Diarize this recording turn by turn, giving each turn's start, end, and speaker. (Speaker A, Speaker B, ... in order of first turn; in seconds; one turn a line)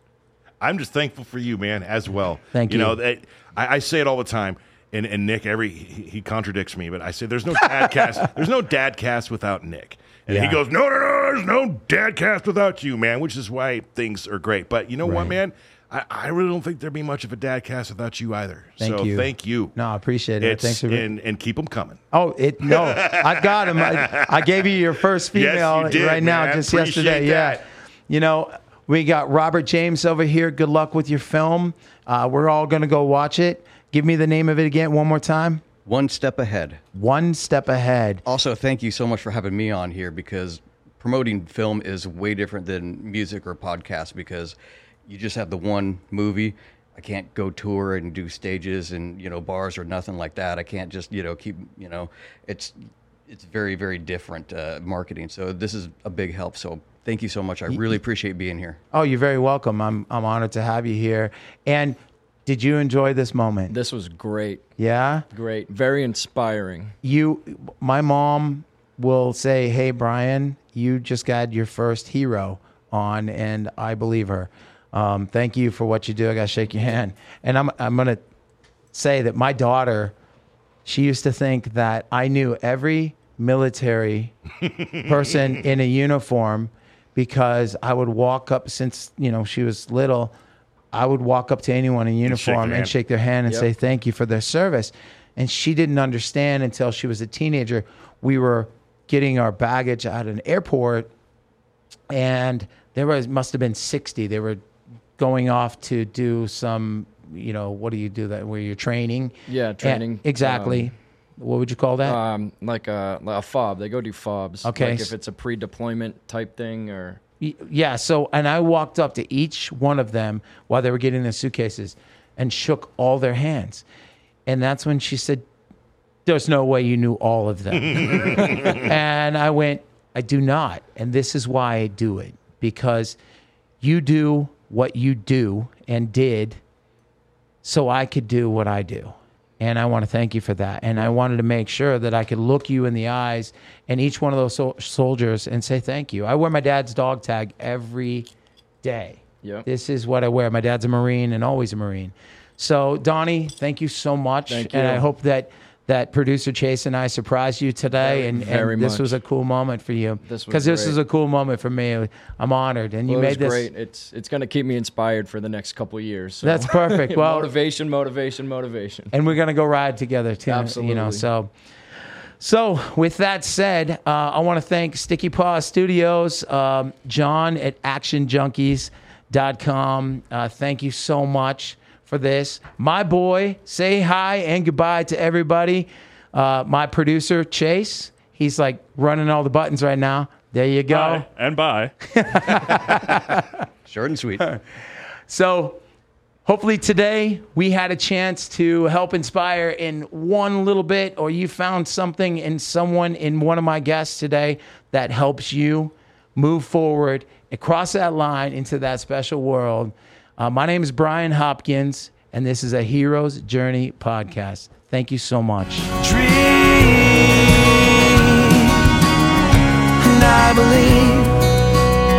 Speaker A: 0.6-19.7
Speaker B: 2.5-3.0
Speaker B: 10.3-10.6
Speaker B: 15.0-15.3
Speaker B: 18.8-21.1
Speaker A: 20.4-22.0
Speaker B: 22.1-35.6
Speaker A: 22.6-24.5
Speaker A: 25.3-27.6
Speaker C: 35.9-36.8
Speaker B: 36.9-38.2
Speaker C: 38.3-44.6
Speaker C: 45.1-58.8
Speaker B: 58.9-63.7
Speaker D: 63.7-64.6
Speaker B: 64.8-65.3
Speaker D: 65.3-67.0
Speaker B: 67.0-78.2
Speaker B: 78.9-80.1
Speaker B: 80.8-84.3
Speaker B: 85.0-90.3
Speaker B: 90.9-101.1
Speaker A: 92.2-92.9
Speaker B: 102.1-104.6
Speaker B: 105.2-112.2
Speaker D: 109.5-110.9
Speaker D: 112.0-117.2
Speaker B: 114.6-115.1
Speaker B: 117.4-123.8
Speaker B: 124.5-125.4
Speaker B: 126.3-133.2
Speaker A: 127.8-128.9
Speaker B: 133.8-136.6
Speaker B: 137.6-148.3
Speaker B: 148.8-163.7
Speaker D: 154.5-155.1
Speaker D: 158.0-159.1
Speaker D: 160.2-161.0
Speaker D: 163.1-169.1
Speaker B: 166.4-167.5
Speaker B: 169.1-171.5
Speaker D: 170.4-171.2
Speaker B: 172.4-191.3
Speaker E: 190.9-193.1
Speaker B: 192.1-193.6
Speaker C: 193.9-194.4
Speaker B: 195.3-195.8
Speaker B: 196.4-218.9
Speaker B: 220.0-221.4